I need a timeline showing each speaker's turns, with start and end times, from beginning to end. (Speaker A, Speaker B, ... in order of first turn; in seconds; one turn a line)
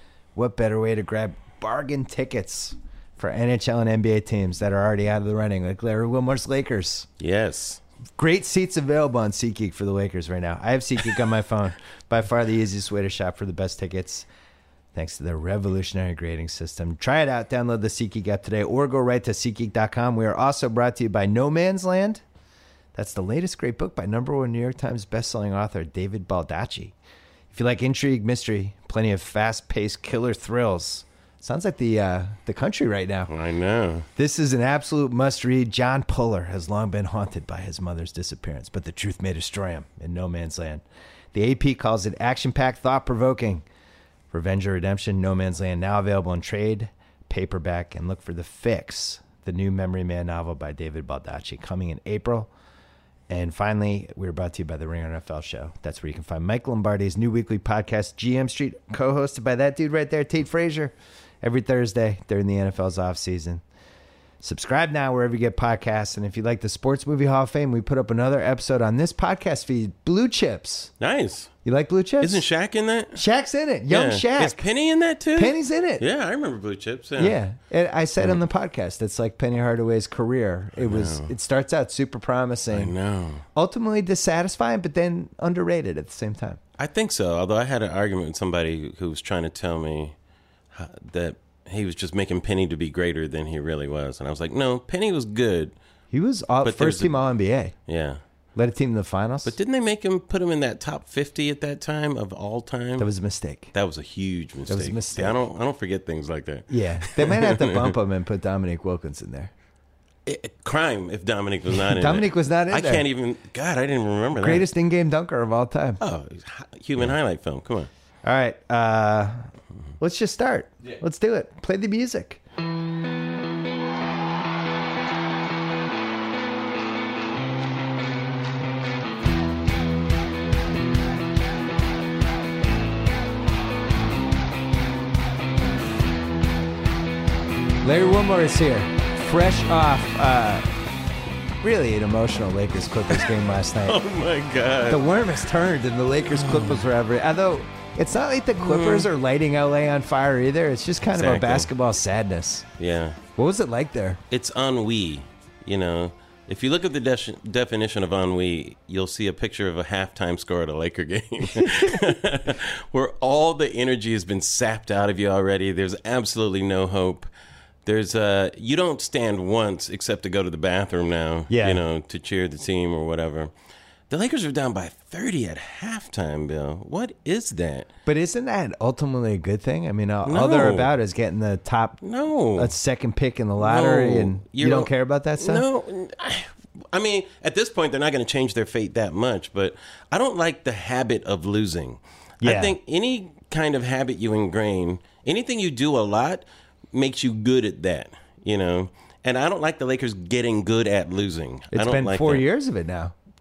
Speaker A: 0.4-7.1
Speaker B: 7.2-7.8
Speaker A: 8.2-14.3
Speaker A: 14.9-22.2
Speaker A: 22.9-26.9
Speaker A: 27.5-33.3
Speaker B: 33.3-34.1
Speaker A: 34.2-43.6
Speaker A: 44.3-52.5
Speaker A: 53.3-63.6
Speaker A: 64.4-70.9
Speaker B: 71.0-71.5
Speaker A: 71.7-72.4
Speaker B: 72.2-73.2
Speaker A: 73.2-74.6
Speaker B: 73.9-77.4
Speaker A: 75.4-76.0
Speaker A: 77.2-82.9
Speaker B: 80.8-81.3
Speaker B: 82.7-83.4
Speaker A: 83.5-86.6
Speaker B: 86.8-90.2
Speaker B: 90.7-95.7
Speaker A: 96.1-97.7
Speaker B: 96.6-97.2
Speaker B: 97.9-98.2
Speaker A: 98.6-99.5
Speaker B: 99.5-103.1
Speaker A: 103.0-103.7
Speaker B: 103.7-108.0
Speaker A: 104.7-105.4
Speaker A: 106.7-109.5
Speaker B: 110.3-114.7
Speaker A: 111.7-113.0
Speaker A: 114.4-116.0
Speaker B: 116.0-117.9
Speaker A: 118.2-119.5
Speaker A: 120.0-122.4
Speaker A: 137.8-140.7
Speaker A: 141.6-144.0
Speaker B: 143.8-145.0
Speaker A: 144.9-152.7
Speaker B: 146.3-146.8
Speaker B: 148.6-149.1
Speaker B: 151.1-151.7
Speaker B: 152.8-153.2
Speaker A: 153.4-154.2
Speaker B: 154.3-167.3
Speaker A: 161.5-162.1
Speaker B: 167.8-173.5
Speaker A: 171.5-171.8
Speaker B: 174.1-177.9
Speaker A: 178.1-182.0
Speaker B: 180.2-180.9
Speaker B: 182.0-182.7
Speaker A: 182.6-185.7
Speaker B: 183.6-202.4
Speaker A: 192.4-192.8
Speaker A: 201.7-203.1